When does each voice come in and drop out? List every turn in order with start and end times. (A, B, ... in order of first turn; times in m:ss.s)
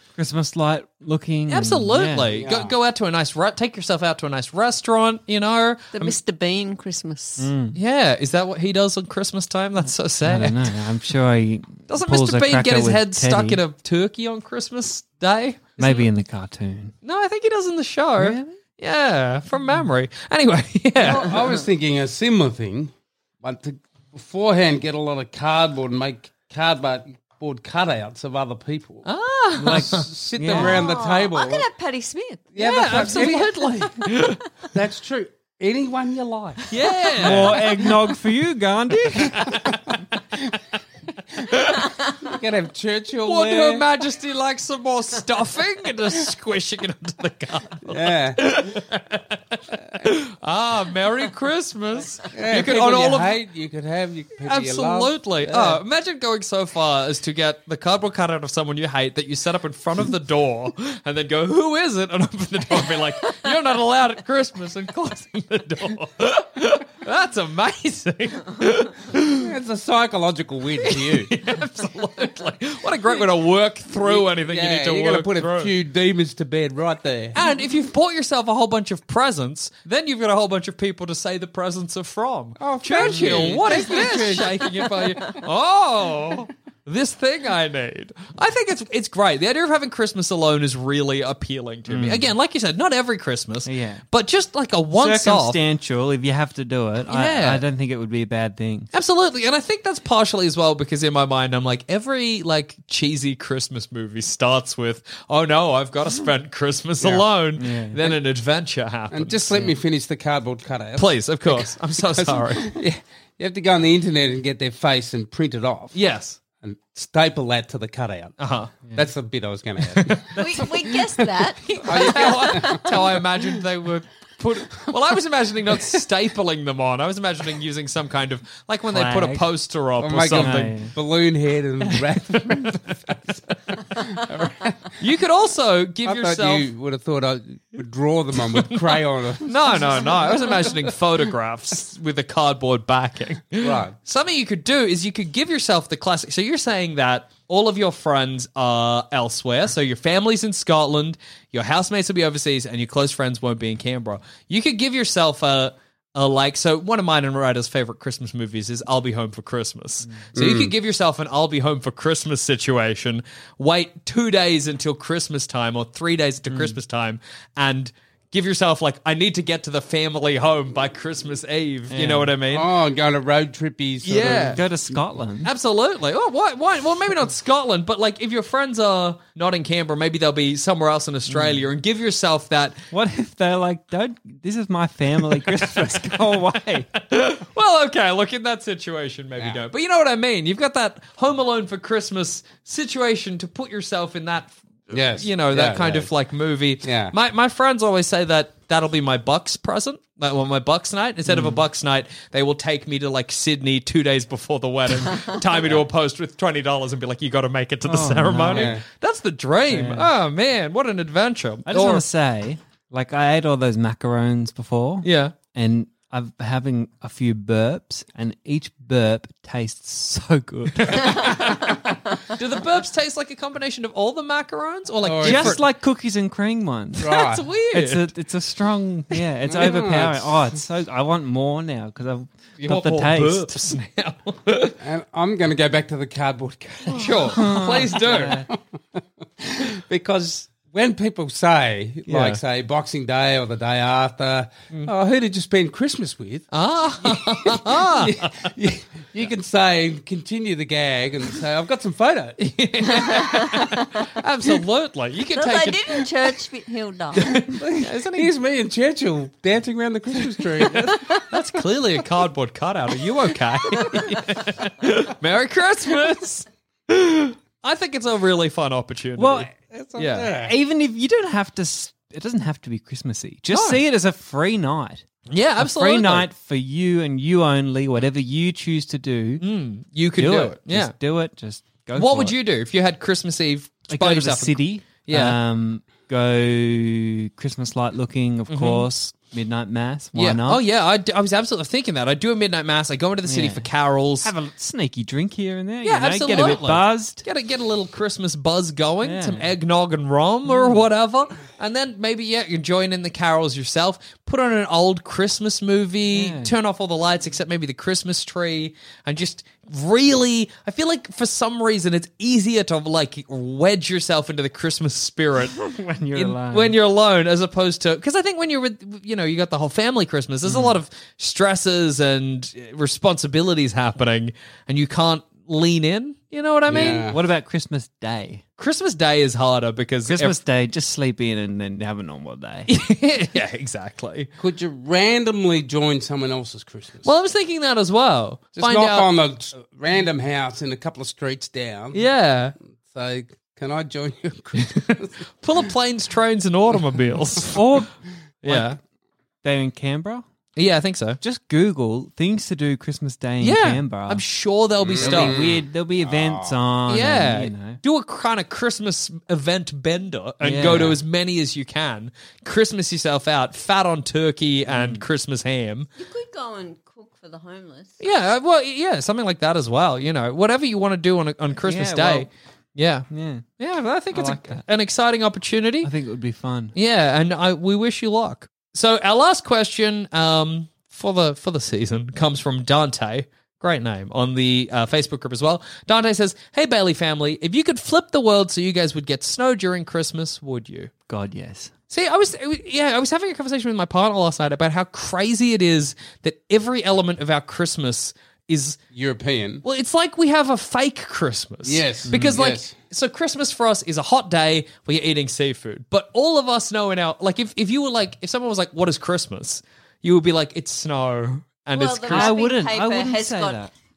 0:00.2-0:02.3 A
0:01.5-0:06.2 B
0:02.3-0:02.7 C
0:05.9-0:07.5 D
0:07.4-0:07.8 A
0:07.7-0:10.7 B
0:10.2-0:13.6 A
0:11.9-0:16.1 B
0:15.8-0:16.9 A
0:17.0-0:21.5 B
0:18.2-0:18.5 A
0:21.0-0:29.0 C
0:29.0-0:30.1 B
0:29.6-0:30.8 A
0:29.7-0:31.7 C
0:30.5-0:34.0 D
0:32.5-0:33.9 C
0:32.6-0:34.4 B
0:34.7-0:37.9 C
0:36.7-0:37.7 B
0:37.2-0:39.7 A
0:39.3-0:39.8 B
0:39.4-0:39.7 C
0:41.4-0:41.8 B
0:42.0-0:43.8 C
0:43.2-0:53.4 B
0:47.8-0:48.4 C
0:52.3-0:55.8 C
0:54.4-1:09.5 B
1:09.4-1:11.3 C
1:10.8-1:15.7 B
1:14.0-1:17.4 C
1:17.3-1:35.6 B
1:22.6-1:24.9 C
1:23.1-1:23.5 A
1:31.9-1:32.3 A
1:33.6-1:34.0 A
1:34.9-1:38.9 A
1:37.1-1:37.6 B
1:38.9-1:49.7 B
1:47.6-1:48.0 A
1:49.1-1:56.0 C
1:51.0-1:52.8 B
1:55.9-1:56.4 B
1:56.6-1:58.3 C
1:58.4-1:58.9 B
1:58.9-2:00.6 C
2:00.0-2:01.0 B
2:00.3-2:02.6 D
2:01.6-2:10.8 B
2:01.8-2:03.4 C
2:08.9-2:09.5 A
2:10.0-2:13.2 C
2:10.3-2:10.9 A
2:11.9-2:12.9 B
2:13.7-2:14.9 C
2:15.0-2:16.7 B
2:16.0-2:20.9 C
2:18.4-2:52.7 B
2:23.6-2:23.9 C
2:40.3-2:40.7 C
2:46.5-2:46.8 A
2:51.9-2:52.3 A
2:52.5-2:55.0 C
2:54.0-2:54.6 B
2:54.2-2:55.5 A
2:55.4-3:02.8 B
3:01.3-3:01.7 A
3:02.9-3:06.9 A
3:06.9-3:32.0 B
3:14.9-3:16.1 C
3:16.8-3:17.1 C
3:21.2-3:21.6 A
3:27.8-3:28.8 A
3:28.5-3:28.8 C
3:29.7-3:30.1 A
3:31.7-3:41.5 A
3:35.0-3:35.3 B
3:40.8-3:45.6 B
3:45.0-3:45.6 C
3:45.2-3:53.7 A
3:47.0-3:47.4 C
3:47.0-3:48.1 B
3:49.2-3:49.8 B
3:49.4-3:50.5 C
3:52.6-3:54.8 B
3:54.8-4:06.5 C
3:56.9-3:58.4 B
3:57.3-3:58.5 A
4:02.1-4:02.4 B
4:06.5-4:08.5 B
4:07.0-4:12.4 C
4:12.4-4:16.1 B
4:13.0-4:13.9 D
4:15.3-4:17.4 D
4:17.2-4:18.3 B
4:17.3-4:21.2 C
4:20.5-4:30.3 B
4:21.0-4:21.2 D
4:29.2-4:29.5 A
4:29.7-4:30.5 C
4:30.4-4:35.0 A
4:33.5-4:33.8 B
4:35.3-4:36.3 B
4:35.6-4:39.4 A
4:39.4-4:40.9 B
4:40.2-4:42.3 A
4:42.0-4:45.4 B
4:43.9-4:50.6 A
4:48.5-4:48.9 B
4:50.1-4:54.3 B
4:53.2-4:53.7 A
4:54.2-4:57.2 A
4:55.8-5:15.6 B
4:59.0-4:59.5 A
5:00.4-5:00.8 A
5:06.1-5:06.5 A
5:15.5-5:16.8 A
5:16.1-5:27.1 B
5:20.4-5:20.8 A
5:26.7-5:27.2 C
5:26.7-5:28.4 A
5:28.6-5:30.3 B
5:30.0-5:32.7 A
5:32.7-5:34.3 B
5:34.4-5:37.1 C
5:37.0-5:39.1 B
5:38.6-5:42.0 C
5:41.9-5:42.5 B
5:42.9-5:45.1 C
5:44.6-5:47.6 B
5:47.5-5:47.9 A
5:48.4-5:48.8 B
5:48.4-5:48.8 A
5:49.4-5:50.3 A
5:50.6-5:51.2 B
5:51.2-5:54.2 A
5:53.4-5:55.6 B
5:54.8-5:56.6 C
5:55.0-5:57.8 A
5:56.9-6:05.9 B
6:00.4-6:01.0 A
6:00.6-6:01.0 C
6:04.7-6:05.0 A
6:06.0-6:08.0 D
6:08.0-6:13.1 B
6:11.6-6:12.3 A
6:13.1-6:13.4 A
6:13.6-6:15.9 B
6:14.1-6:14.6 A
6:15.8-6:16.7 A
6:16.7-6:30.9 B
6:31.1-6:31.7 A
6:31.9-6:38.8 B
6:38.9-6:39.6 C
6:39.6-6:52.3 B
6:41.6-6:42.7 C
6:42.1-6:42.4 A
6:51.7-6:53.6 D
6:52.1-6:53.7 A